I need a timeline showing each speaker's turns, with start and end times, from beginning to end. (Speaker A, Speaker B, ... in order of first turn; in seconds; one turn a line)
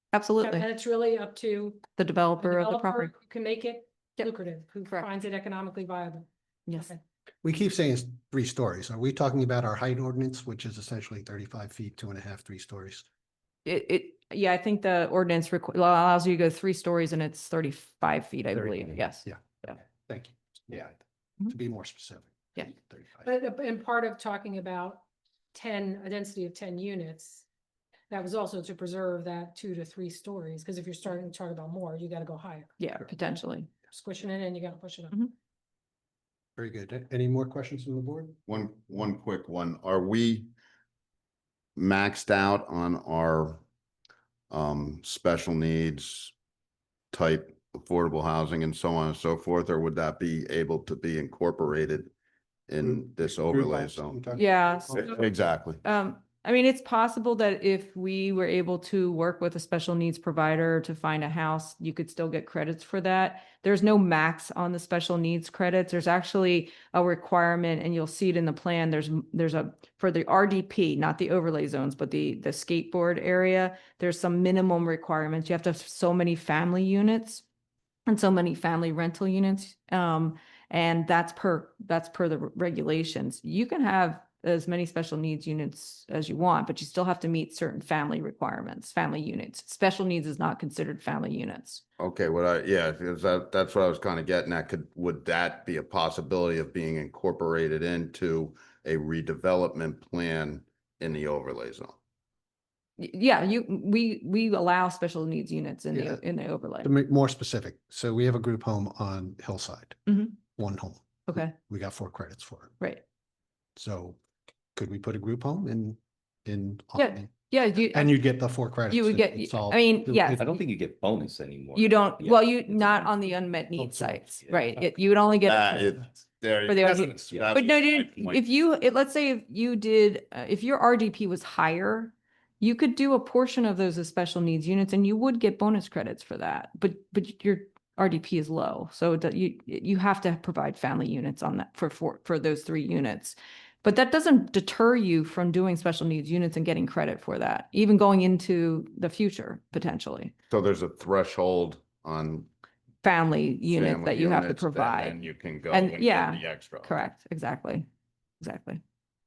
Speaker A: 0.1-0.7
Speaker B: 0.4-7.0
Speaker A: 2.0-3.1
Speaker C: 7.4-13.0
Speaker A: 13.6-19.8
Speaker C: 18.6-23.3
Speaker B: 23.2-25.0
Speaker B: 25.5-27.4
Speaker B: 28.1-32.8
Speaker A: 32.8-33.7
Speaker B: 33.9-35.2
Speaker C: 36.5-38.4
Speaker D: 38.5-40.5
Speaker D: 41.8-43.6
Speaker D: 44.5-46.3
Speaker D: 47.1-52.1
Speaker D: 52.7-54.2
Speaker C: 52.8-55.3
Speaker A: 54.3-55.2
Speaker D: 55.0-55.8
Speaker A: 55.8-77.4
Speaker A: 78.1-91.8
Speaker D: 92.0-102.0
Speaker A: 103.0-106.9
Speaker C: 105.9-106.2
Speaker C: 106.8-112.7
Speaker A: 110.1-110.3
Speaker A: 111.3-111.5
Speaker C: 113.8-114.2
Speaker C: 114.7-117.3
Speaker A: 117.0-118.2
Speaker C: 117.9-120.5
Speaker A: 118.9-120.5
Speaker E: 120.3-122.7
Speaker A: 121.7-126.0
Speaker C: 123.8-124.2
Speaker D: 125.4-128.4
Speaker A: 126.7-150.3
Speaker E: 127.3-127.6
Speaker D: 150.5-152.5
Speaker A: 153.0-157.8
Speaker D: 153.7-156.9
Speaker A: 158.4-158.8